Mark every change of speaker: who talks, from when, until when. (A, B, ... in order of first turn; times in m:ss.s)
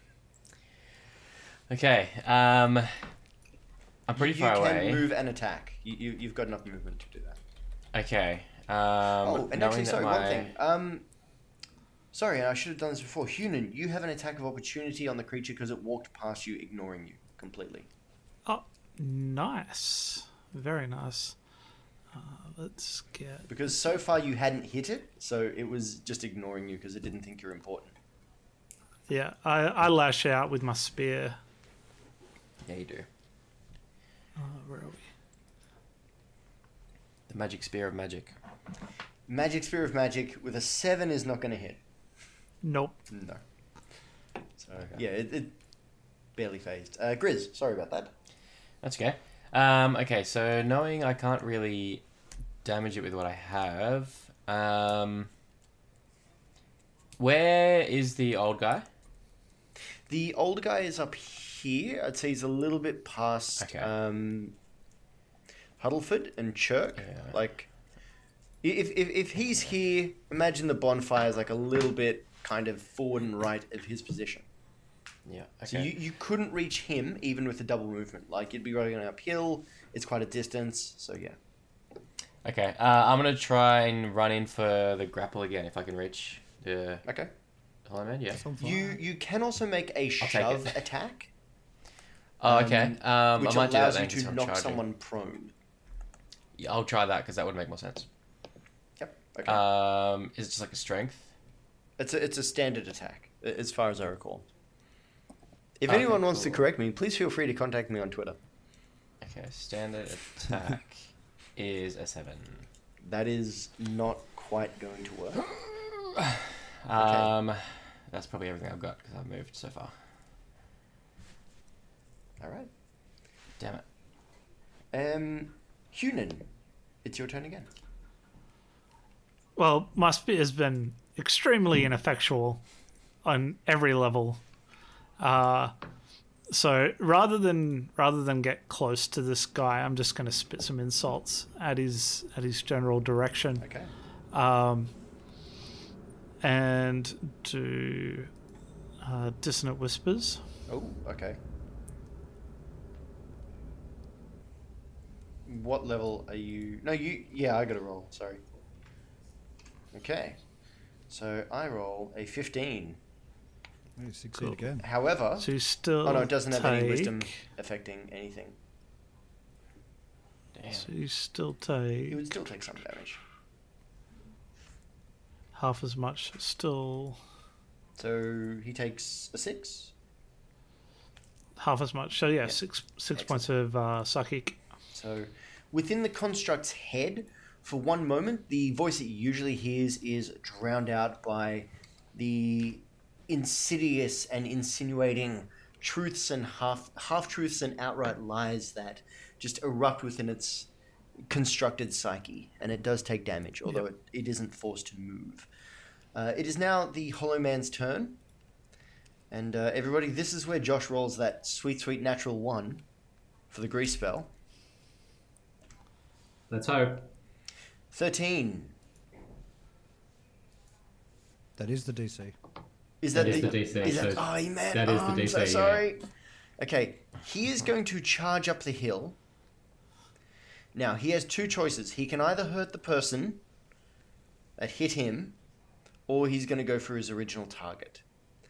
0:01.7-0:03.0 A
0:04.1-0:05.0 A
0:04.2-0:07.4 B
0:07.9-0:10.5 A
0:09.2-0:11.1 B
0:12.1-0:17.9 B
0:18.5-0:21.4 C
0:22.1-0:23.6 C
0:23.5-0:27.9 B
0:29.1-0:31.4 C
0:32.6-0:33.1 A
0:34.4-0:35.0 C
0:37.3-0:38.4 A
0:39.3-0:41.8 B
0:42.6-0:43.0 C
0:43.1-0:43.4 B
0:44.6-0:45.6 B
0:46.4-0:48.1 B
0:48.8-0:52.0 A
0:52.6-0:55.3 A
0:57.2-0:58.9 A
1:00.1-1:04.6 B
1:03.6-1:03.9 A
1:05.8-1:07.7 B
1:07.0-1:07.4 A
1:08.6-1:14.5 B
1:15.3-1:15.9 A
1:15.7-1:21.4 B
1:22.4-1:27.0 A
1:27.0-1:27.3 B
1:27.9-1:28.4 A
1:28.4-1:29.0 D
1:28.6-1:31.3 B
1:30.2-1:30.8 A
1:32.4-1:34.8 A
1:32.4-1:35.5 B
1:36.6-1:38.1 A
1:39.0-1:39.6 B
1:39.5-1:41.3 A
1:42.0-1:44.5 B
1:45.8-1:48.4 B
1:45.9-1:46.6 A
1:49.2-1:52.7 A
1:53.0-1:55.5 B
1:55.5-1:59.9 A
1:56.9-1:57.3 B
2:02.4-2:02.7 B
2:04.9-2:06.5 B
2:07.0-2:07.7 B
2:09.6-2:12.6 C
2:13.2-2:14.4 C
2:15.2-2:15.7 C
2:16.5-2:23.7 C
2:23.6-2:23.9 B
2:24.3-2:24.9 C
2:26.4-2:28.3 C
2:29.0-2:30.4 C
2:30.7-2:31.4 B
2:35.5-2:38.4 B
2:39.9-2:40.4 B
2:41.1-2:43.0 B
2:44.0-2:44.8 D
2:44.8-2:45.5 B
2:45.4-2:47.3 C
2:46.0-2:48.6 B
2:50.6-2:50.9 A
2:50.7-2:52.3 C
2:52.1-2:53.2 B
2:55.5-2:57.2 C
2:58.0-2:59.9 B
3:01.6-3:04.6 C
3:03.2-3:03.5 B
3:04.9-3:20.7 B
3:21.3-3:25.5 B
3:26.2-3:28.2 B
3:29.3-3:32.8 B
3:33.5-3:34.3 B
3:36.5-3:37.1 E
3:37.9-3:38.7 B
3:41.6-3:42.3 D
3:43.0-3:46.0 B
3:43.1-3:45.8 E
3:46.6-3:49.2 B
3:50.8-3:53.4 B
3:54.6-3:55.4 B
3:56.1-3:58.0 B